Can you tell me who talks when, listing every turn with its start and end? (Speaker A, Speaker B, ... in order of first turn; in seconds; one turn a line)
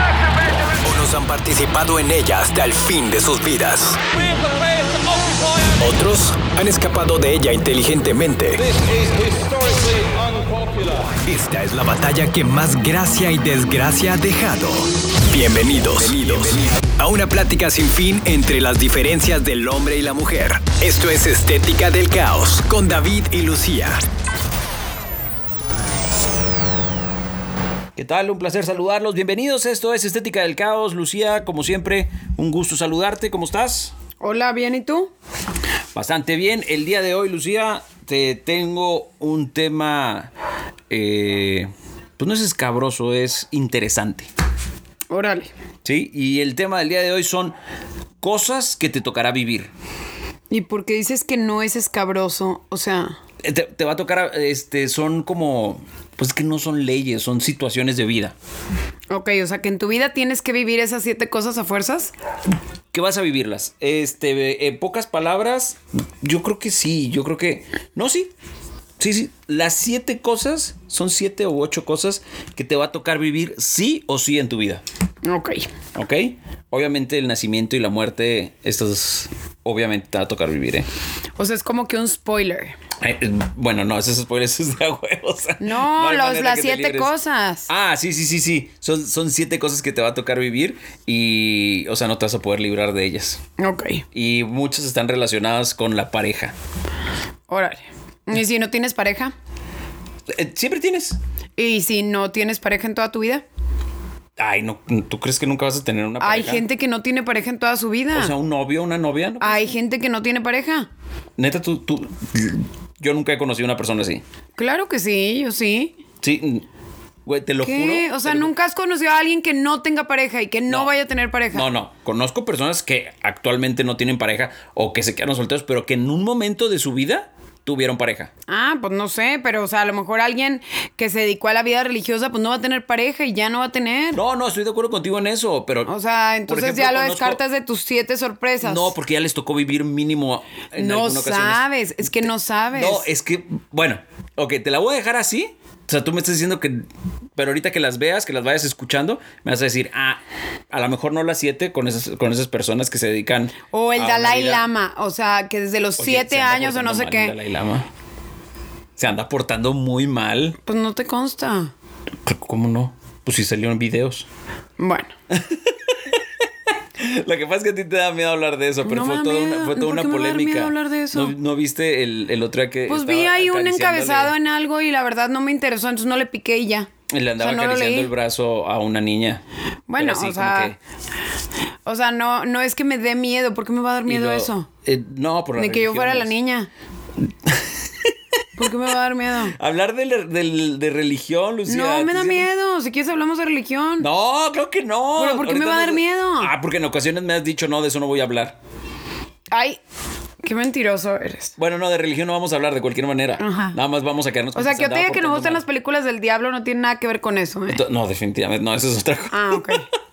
Speaker A: 0.7-24.0
Speaker B: 27.9-33.9
Speaker C: 34.2-35.1
Speaker B: 35.9-40.3
Speaker B: 40.9-44.3
Speaker C: 45.1-45.5
Speaker B: 45.8-47.5
Speaker B: 48.2-49.7
Speaker C: 50.5-53.2
Speaker B: 53.4-58.3
Speaker C: 59.1-62.1
Speaker B: 62.9-68.3
Speaker B: 69.0-74.8
Speaker C: 75.2-75.7
Speaker B: 75.9-80.9
Speaker C: 81.4-82.8
Speaker B: 83.0-87.1
Speaker C: 85.6-87.7
Speaker B: 87.7-93.4
Speaker C: 93.6-94.0
Speaker B: 94.1-96.5
Speaker C: 97.5-99.3
Speaker B: 100.3-101.2
Speaker C: 101.6-103.4
Speaker B: 104.4-106.6
Speaker C: 106.2-108.3
Speaker B: 108.1-109.8
Speaker C: 109.4-110.9
Speaker B: 111.4-114.2
Speaker C: 114.5-116.0
Speaker B: 116.2-116.7
Speaker B: 117.2-118.5
Speaker C: 117.6-121.7
Speaker B: 120.7-120.9
Speaker B: 121.5-128.3
Speaker C: 128.5-134.2
Speaker B: 134.1-135.9
Speaker C: 135.8-138.9
Speaker B: 136.5-137.4
Speaker B: 138.6-154.7
Speaker C: 140.8-143.1
Speaker C: 153.7-157.3
Speaker B: 156.0-157.9
Speaker B: 158.9-160.6
Speaker C: 160.6-161.7
Speaker B: 162.2-164.3
Speaker C: 164.8-165.1
Speaker B: 165.3-166.2
Speaker B: 167.0-174.3
Speaker C: 168.8-171.3
Speaker C: 172.9-178.1
Speaker B: 177.1-179.4
Speaker C: 179.9-180.7
Speaker B: 180.0-180.8
Speaker C: 181.8-184.7
Speaker B: 184.1-186.3
Speaker C: 185.6-186.7
Speaker B: 187.2-188.1
Speaker C: 188.6-189.6
Speaker B: 189.5-192.5
Speaker C: 191.7-194.1
Speaker B: 194.0-198.6
Speaker C: 195.2-196.5
Speaker C: 199.5-199.8
Speaker C: 200.4-201.6
Speaker B: 201.6-205.6
Speaker C: 203.4-203.8
Speaker C: 204.5-207.8
Speaker B: 207.7-209.8
Speaker C: 209.3-209.9